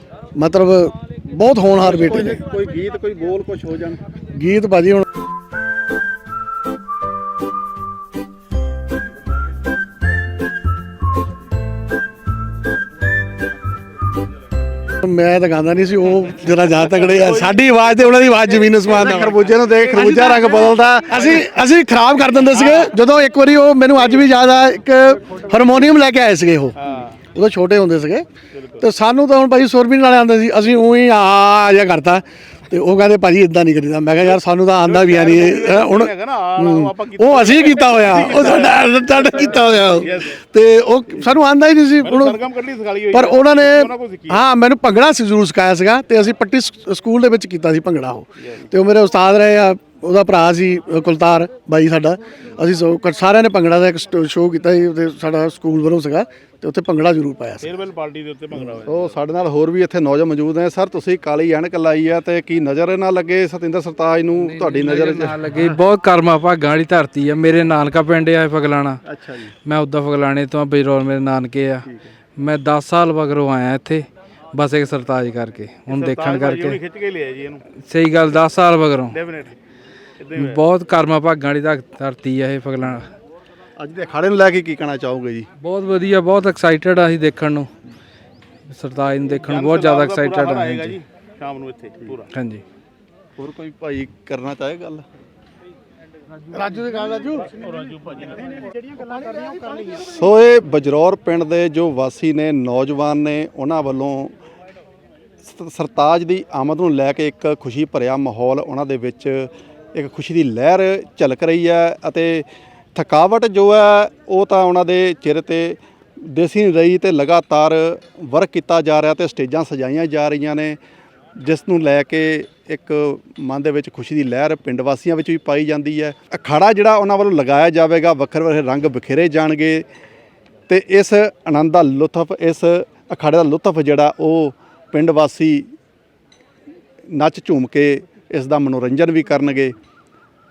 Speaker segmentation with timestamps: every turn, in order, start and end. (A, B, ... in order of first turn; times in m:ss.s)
0:00.4-0:02.4 A
0:01.8-0:04.0 B
0:04.3-0:05.0 A
0:15.0-0:26.7 A
0:17.0-0:19.8 C
0:18.9-0:21.4 B
0:26.8-0:27.1 C
0:27.3-0:28.2 A
0:28.5-0:28.8 C
0:28.8-0:42.4 A
0:34.2-0:40.4 C
0:42.0-0:44.4 C
0:43.1-0:57.7 A
0:57.6-0:59.1 C
0:58.8-1:05.6 B
1:04.4-1:09.0 D
1:09.0-1:09.5 B
1:09.6-1:11.8 D
1:12.4-1:16.8 D
1:15.9-1:17.6 C
1:17.8-1:19.2 D
1:19.1-1:19.6 C
1:20.2-1:20.6 C
1:20.4-1:23.1 D
1:23.8-1:25.5 B
1:25.6-1:27.7 D
1:28.7-1:31.0 D
1:29.3-1:32.3 C
1:32.3-1:32.6 D
1:33.4-1:35.0 B
1:36.5-1:37.4 A
1:37.6-1:38.5 C
1:39.3-1:39.6 A
1:40.0-1:44.3 B
1:45.4-1:55.8 B
1:56.3-2:00.8 B
2:01.4-2:09.8 B
2:10.7-2:15.7 B
2:17.1-2:19.8 B